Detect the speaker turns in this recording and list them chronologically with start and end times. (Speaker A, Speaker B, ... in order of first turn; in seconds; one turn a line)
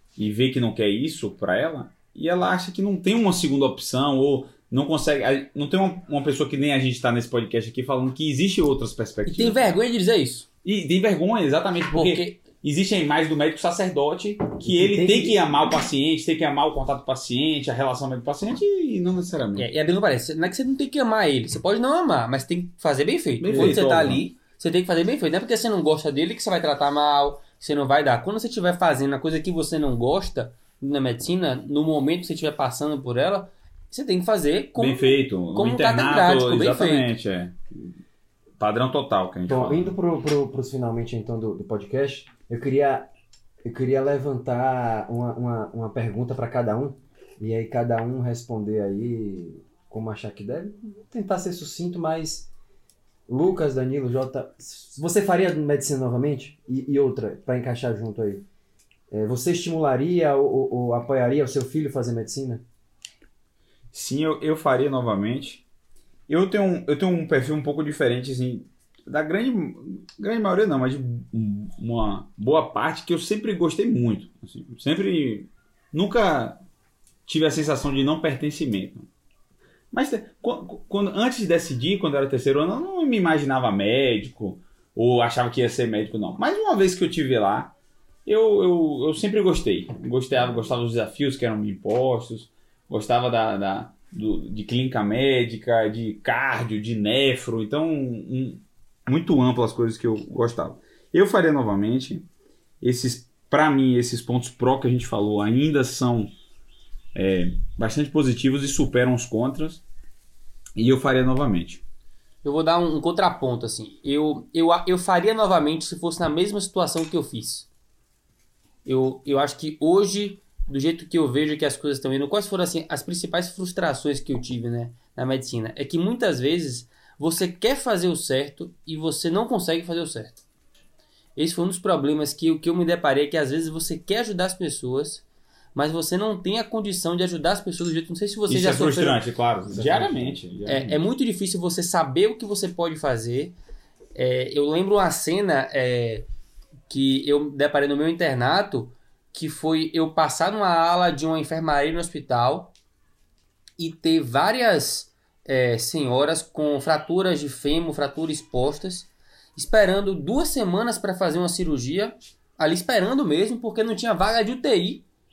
Speaker A: 0.2-9.8
Speaker B: 9.3-10.5
Speaker A: 10.6-19.7
Speaker B: 11.9-12.4
Speaker C: 14.7-15.4
Speaker B: 19.6-37.1
Speaker A: 23.4-24.2
Speaker A: 34.8-37.6
Speaker A: 38.6-39.9
Speaker C: 39.5-43.1
Speaker C: 43.6-52.5
Speaker C: 53.3-58.5
Speaker C: 59.1-62.6
Speaker A: 63.9-65.6
Speaker A: 66.3-76.6
Speaker A: 77.3-79.1
Speaker A: 79.9-87.7
Speaker A: 88.3-102.3
Speaker A: 102.8-106.3
Speaker A: 107.2-109.8
Speaker A: 110.8-111.8
Speaker B: 112.4-117.7
Speaker B: 118.8-130.4
Speaker B: 131.4-135.2
Speaker B: 135.8-139.2
Speaker A: 138.5-141.0
Speaker C: 139.7-140.4
Speaker B: 140.7-143.6
Speaker B: 144.2-146.3
Speaker B: 146.9-152.7
Speaker B: 153.8-165.1